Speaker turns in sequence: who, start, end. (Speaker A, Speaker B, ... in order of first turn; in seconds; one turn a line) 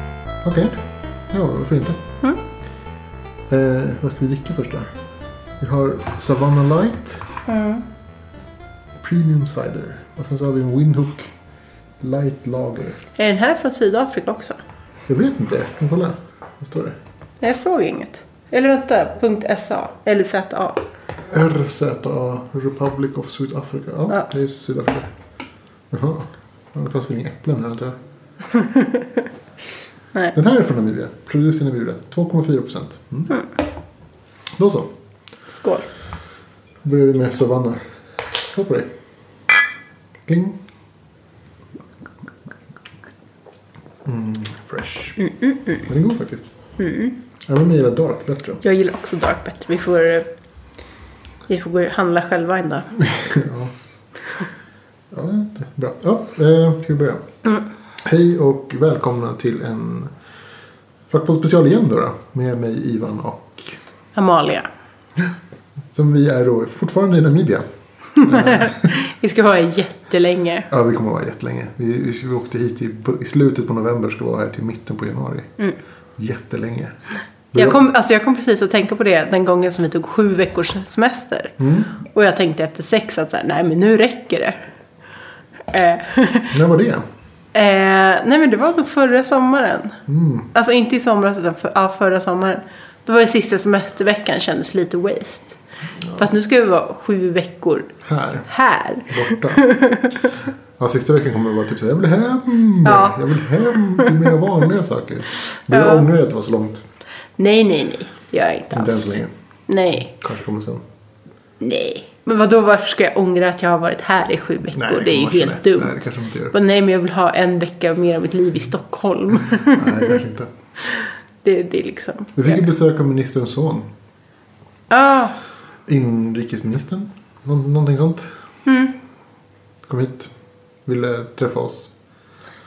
Speaker A: 0.4-2.0
Speaker A: 3.5-4.9
Speaker A: 5.6-7.3
Speaker B: 7.5-7.8
Speaker A: 9.0-11.3
Speaker A: 12.0-13.0
Speaker B: 13.2-14.6
Speaker A: 15.1-16.9
Speaker B: 17.4-20.8
Speaker A: 21.3-25.1
Speaker A: 25.9-27.9
Speaker B: 28.5-29.2
Speaker A: 30.3-33.4
Speaker A: 34.5-34.9
Speaker B: 35.5-35.9
Speaker A: 36.8-38.9
Speaker A: 40.2-40.6
Speaker A: 44.0-45.2
Speaker B: 45.2-45.9
Speaker A: 45.9-46.5
Speaker B: 46.8-47.2
Speaker A: 47.5-48.6
Speaker B: 48.6-50.3
Speaker B: 51.5-53.1
Speaker A: 53.1-53.7
Speaker A: 55.1-57.2
Speaker A: 58.0-60.1
Speaker A: 61.1-63.8
Speaker B: 64.1-64.7
Speaker A: 65.9-67.7
Speaker A: 68.2-69.0
Speaker B: 68.2-70.7
Speaker A: 70.7-75.5
Speaker A: 76.2-77.0
Speaker A: 77.5-77.8
Speaker B: 77.5-84.6
Speaker A: 81.6-81.9
Speaker B: 85.7-86.5
Speaker A: 86.5-87.0
Speaker B: 87.5-90.0
Speaker A: 90.1-90.5
Speaker B: 90.5-95.6
Speaker A: 96.0-96.3
Speaker B: 96.1-97.9
Speaker A: 98.0-98.5
Speaker B: 98.5-100.3
Speaker A: 99.1-99.7
Speaker A: 100.8-106.8
Speaker B: 102.8-104.3
Speaker B: 105.5-106.1
Speaker B: 107.4-110.1
Speaker A: 108.7-109.3
Speaker A: 110.1-110.8
Speaker B: 111.6-120.2
Speaker A: 114.7-116.5
Speaker A: 119.5-120.5
Speaker B: 120.8-122.6
Speaker A: 122.4-123.9
Speaker B: 124.9-125.3
Speaker A: 125.9-128.3
Speaker B: 128.7-128.9
Speaker A: 129.9-130.3
Speaker A: 130.9-131.9